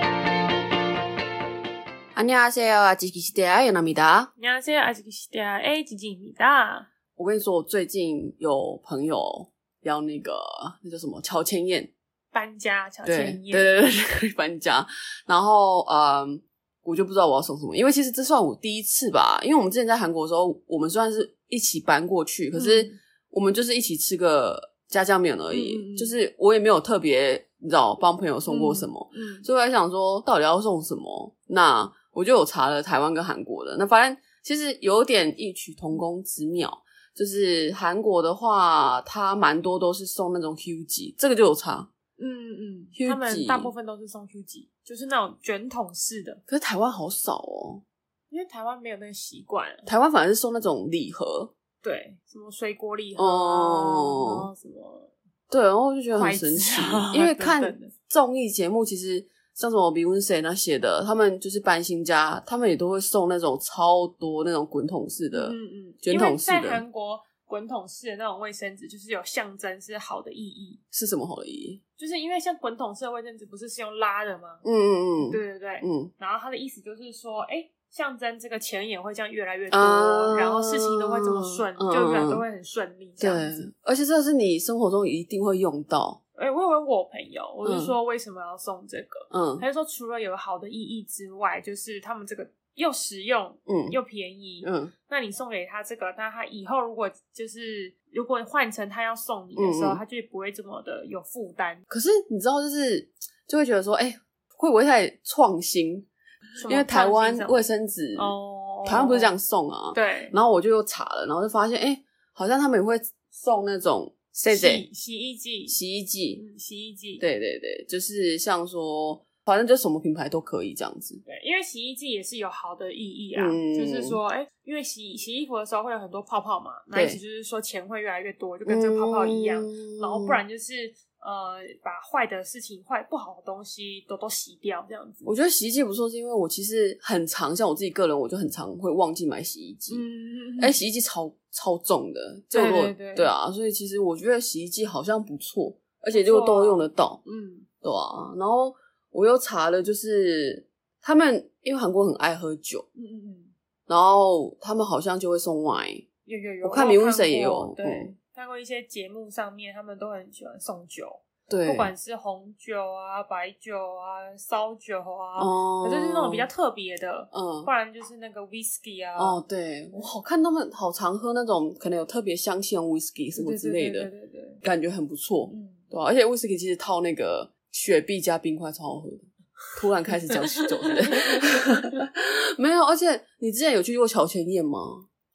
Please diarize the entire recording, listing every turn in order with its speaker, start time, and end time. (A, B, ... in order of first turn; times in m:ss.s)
0:02.1-0:04.3 A
0:04.4-0:06.9 B
0:07.2-0:11.9 A
0:12.3-0:13.8 B
0:13.0-0:41.9 A
0:22.5-0:23.0 B
0:25.5-0:26.2 B
0:28.5-0:29.4 B
0:42.2-0:46.4 B
0:42.9-0:43.7 A
0:46.5-0:47.8 A
0:48.3-0:49.9 B
0:49.8-0:51.5 A
0:51.8-0:55.1 B
0:53.2-0:54.5 A
0:55.5-1:06.8 A
0:56.1-0:57.9 B
1:05.3-1:10.8 B
1:10.9-1:11.8 A
1:12.0-1:14.6 B
1:14.6-1:16.1 A
1:15.2-1:23.6 B
1:19.7-1:22.4 A
1:23.2-1:26.2 A
1:26.4-1:41.8 B
1:27.6-1:27.9 A
1:29.3-1:29.6 A
1:33.7-1:34.0 A
1:34.6-1:34.9 A
1:39.6-1:40.0 A
1:41.9-1:46.1 A
1:46.6-1:47.6 B
1:46.6-1:48.3 A
1:48.2-1:49.3 B
1:48.8-1:54.8 A
1:49.9-1:50.4 B
1:54.4-1:55.8 B
1:55.7-1:56.4 A
1:56.4-1:57.2 B
1:57.2-2:01.2 A
2:01.2-2:15.3 B
2:03.3-2:04.2 A
2:06.9-2:07.2 A
2:08.6-2:10.4 A
2:15.2-2:20.0 A
2:19.9-2:20.8 B
2:20.6-2:27.2 A
2:22.5-2:23.3 B
2:26.1-2:27.7 B
2:27.8-2:32.8 A
2:33.0-2:33.5 B
2:33.9-2:36.0 A
2:36.2-2:49.4 B
2:36.6-2:38.1 A
2:41.5-2:41.9 A
2:45.4-2:46.5 A
2:47.3-2:47.7 A
2:49.2-2:54.1 A
2:53.3-2:54.6 B
2:54.6-3:05.1 A
2:55.5-2:55.8 B
3:00.3-3:01.6 B